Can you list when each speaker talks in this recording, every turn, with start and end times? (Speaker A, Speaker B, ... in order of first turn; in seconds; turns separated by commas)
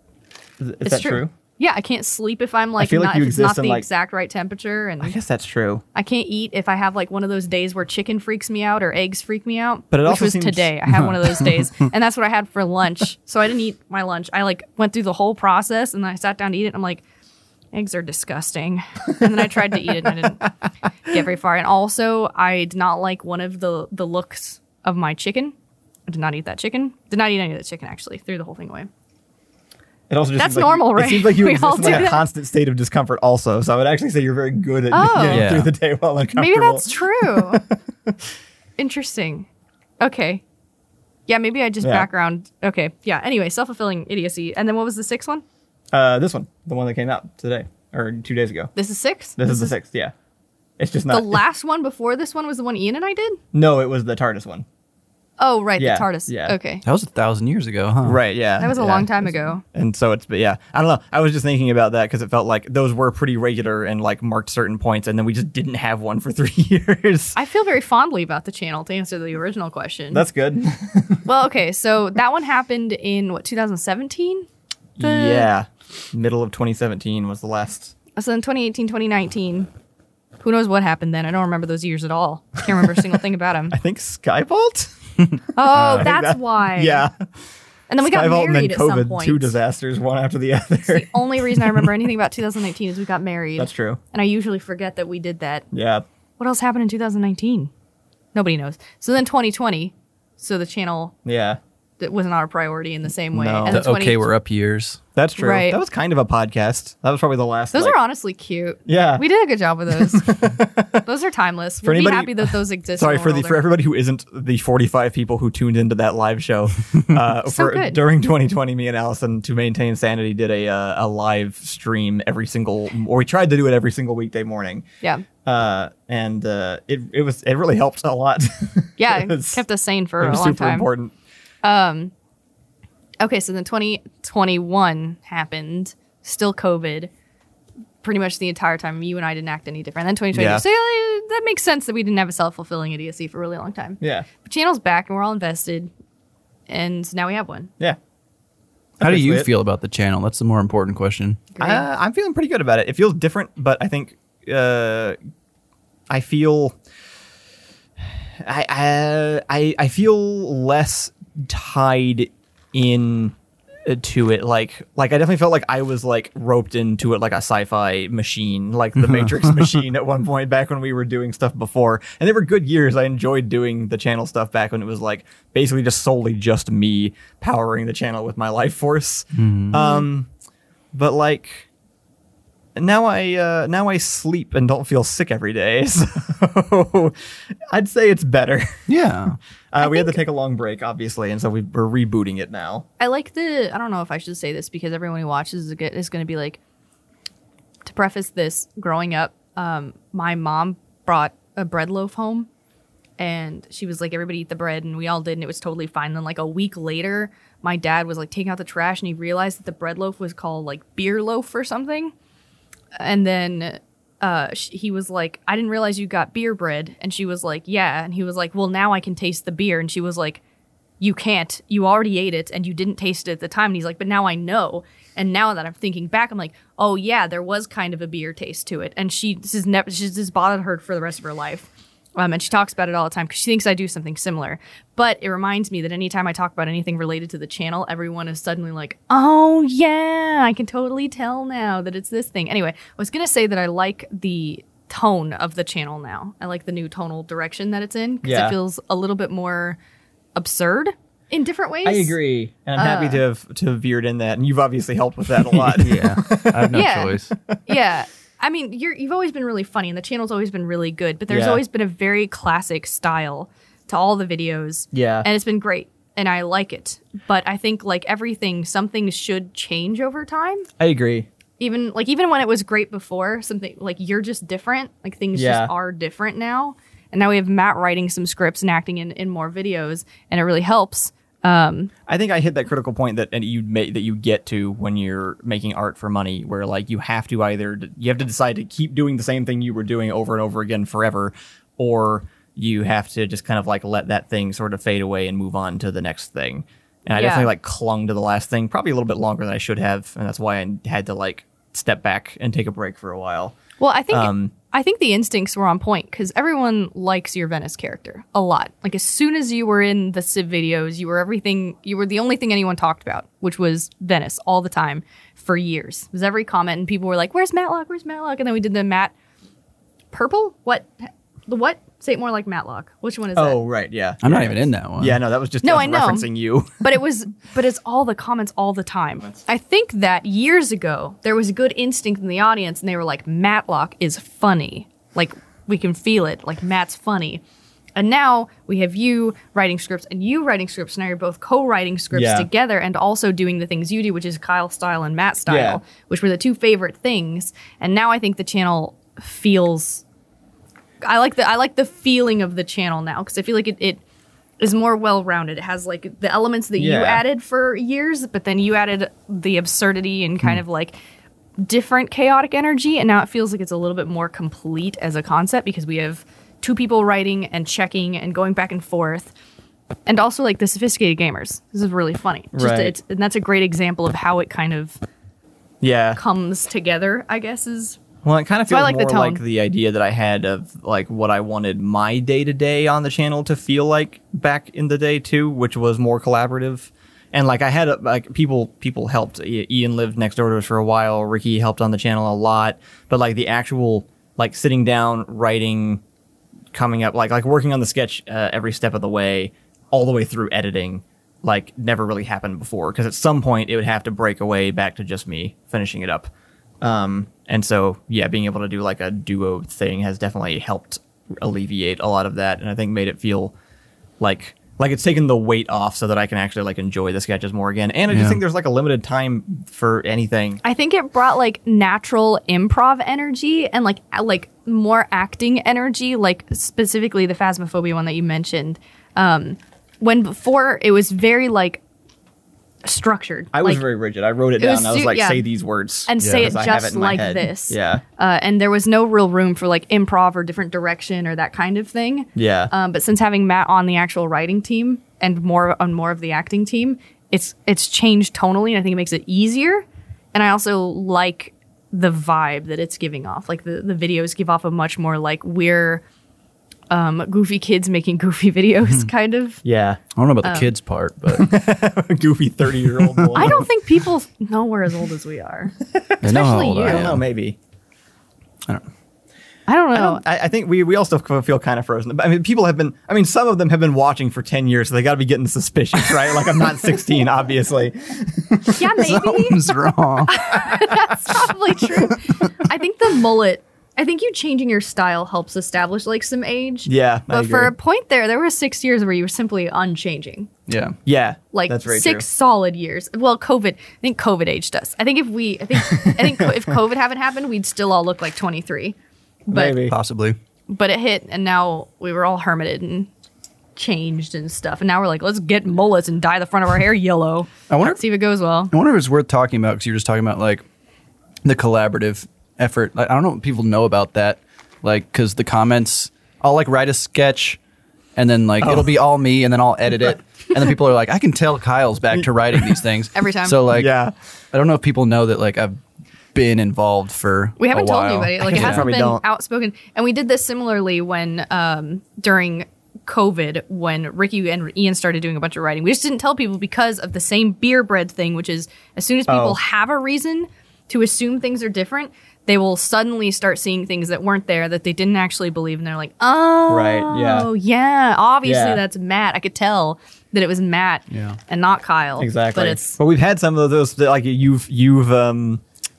Speaker A: 0.6-1.3, Speaker B: 0.8-5.2, Speaker A: 2.8-3.9, Speaker A: 5.0-5.8, Speaker B: 5.9-17.0, Speaker A: 9.9-10.8, Speaker B: 17.7-20.5, Speaker B: 21.1-25.5, Speaker B: 26.1-28.9, Speaker A: 30.1-38.2, Speaker B: 30.4-32.2, Speaker B: 34.9-35.5, Speaker C: 35.3-35.7, Speaker B: 36.3-37.6, Speaker B: 38.8-39.5, Speaker B: 40.0-40.4, Speaker B: 41.3-45.4, Speaker A: 41.8-42.1, Speaker A: 45.9-48.7, Speaker B: 48.8-49.7, Speaker A: 49.4-50.1, Speaker A: 50.8-51.4, Speaker B: 51.1-53.4, Speaker A: 53.5-54.6, Speaker B: 55.4-56.8, Speaker A: 55.8-56.6, Speaker C: 56.8-58.2, Speaker A: 58.0-67.3, Speaker B: 58.6-59.6, Speaker B: 67.3-70.2, Speaker A: 70.1-71.2, Speaker B: 71.2-74.5, Speaker A: 75.0-77.9, Speaker B: 75.0-75.5, Speaker B: 78.2-79.7, Speaker B: 80.4-83.8, Speaker A: 83.7-84.9, Speaker B: 85.5-87.1, Speaker A: 85.7-87.2, Speaker C: 85.7-86.1, Speaker B: 87.9-89.5, Speaker A: 88.0-91.9, Speaker B: 90.8-95.7, Speaker A: 93.6-94.0, Speaker A: 95.7-96.0, Speaker B: 96.4-97.7, Speaker B: 98.3-101.1, Speaker A: 101.2-101.6, Speaker B: 102.0-104.2, Speaker A: 103.3-103.8, Speaker C: 103.7-105.0, Speaker A: 105.2-108.0, Speaker B: 105.4-105.8, Speaker B: 107.7-110.3, Speaker A: 108.9-109.2, Speaker A: 109.9-111.0, Speaker B: 111.0-113.6, Speaker A: 111.8-124.8, Speaker B: 117.5-118.0, Speaker A: 125.4-129.6, Speaker B: 129.0-130.9, Speaker A: 130.2-131.1, Speaker B: 131.6-132.1, Speaker B: 133.2-137.1, Speaker B: 138.0-145.9, Speaker A: 140.3-140.6, Speaker A: 144.0-144.3, Speaker B: 146.7-147.7, Speaker A: 149.0-149.5, Speaker C: 149.0-151.5, Speaker B: 151.5-151.8, Speaker A: 151.6-155.2, Speaker A: 156.1-156.8, Speaker A: 158.1-163.3, Speaker A: 163.8-180.3, Speaker C: 169.1-169.7, Speaker C: 179.3-179.8, Speaker B: 179.7-180.0, Speaker A: 180.9-181.7, Speaker A: 182.8-187.2, Speaker A: 187.7-188.7, Speaker C: 188.9-189.4, Speaker A: 189.7-192.8, Speaker B: 189.8-190.2, Speaker B: 193.0-196.6, Speaker B: 197.8-202.5, Speaker B: 203.2-212.1, Speaker B: 213.0-220.4, Speaker B: 221.0-249.8, Speaker A: 248.2-248.6, Speaker B: 250.3-252.2, Speaker A: 251.8-256.8, Speaker B: 252.8-253.2, Speaker C: 255.7-257.3, Speaker B: 256.7-270.7, Speaker A: 261.3-261.6, Speaker A: 264.9-265.3, Speaker A: 270.8-271.3, Speaker B: 271.6-281.9, Speaker A: 275.3-275.7, Speaker A: 282.1-303.6, Speaker B: 297.1-297.5, Speaker B: 303.8-319.1, Speaker A: 304.1-304.5, Speaker B: 320.1-320.9, Speaker B: 321.5-323.6, Speaker A: 323.4-326.8, Speaker C: 324.2-325.2, Speaker B: 325.6-326.3, Speaker B: 326.8-337.4, Speaker B: 337.9-350.0, Speaker A: 342.1-342.5, Speaker A: 345.5-345.8, Speaker B: 351.0-354.0, Speaker B: 354.6-360.9, Speaker A: 356.8-357.2, Speaker B: 361.6-369.3, Speaker B: 370.1-375.0, Speaker A: 372.5-372.9, Speaker A: 375.8-376.2, Speaker B: 376.1-378.0, Speaker A: 378.2-396.0, Speaker B: 378.7-379.4, Speaker A: 396.7-406.3, Speaker A: 406.8-413.5, Speaker A: 414.2-420.6, Speaker C: 418.1-418.4, Speaker B: 420.6-431.8, Speaker B: 432.8-433.8, Speaker A: 433.5-438.0, Speaker B: 434.6-435.4, Speaker B: 436.1-456.0, Speaker C: 436.2-436.5, Speaker A: 442.4-442.7, Speaker B: 456.9-459.6, Speaker A: 459.6-460.0, Speaker C: 460.1-461.5, Speaker B: 460.4-460.7, Speaker A: 461.3-463.7, Speaker C: 463.1-463.6, Speaker B: 463.3-467.1, Speaker A: 465.9-467.6, Speaker C: 466.2-467.2, Speaker B: 469.7-470.2, Speaker A: 469.9-479.0, Speaker B: 478.8-479.8, Speaker C: 479.0-480.9, Speaker B: 480.3-490.5, Speaker A: 486.9-487.7, Speaker C: 490.7-491.0, Speaker A: 491.1-492.2, Speaker B: 491.5-498.9, Speaker A: 495.9-496.5, Speaker A: 499.5-499.9, Speaker B: 499.5-499.8, Speaker C: 499.8-500.4, Speaker B: 500.7-503.1, Speaker B: 503.8-508.7, Speaker C: 507.7-508.0, Speaker C: 508.7-510.6, Speaker C: 511.4-517.6, Speaker C: 518.1-523.9, Speaker A: 518.6-518.9, Speaker A: 522.1-522.8, Speaker B: 523.1-523.6, Speaker A: 523.7-524.1, Speaker C: 524.5-525.8, Speaker C: 526.3-528.9, Speaker B: 527.6-553.0, Speaker A: 528.4-529.2, Speaker A: 539.3-539.6, Speaker A: 546.7-547.5, Speaker A: 548.4-548.8, Speaker C: 551.1-551.4, Speaker A: 552.2-555.6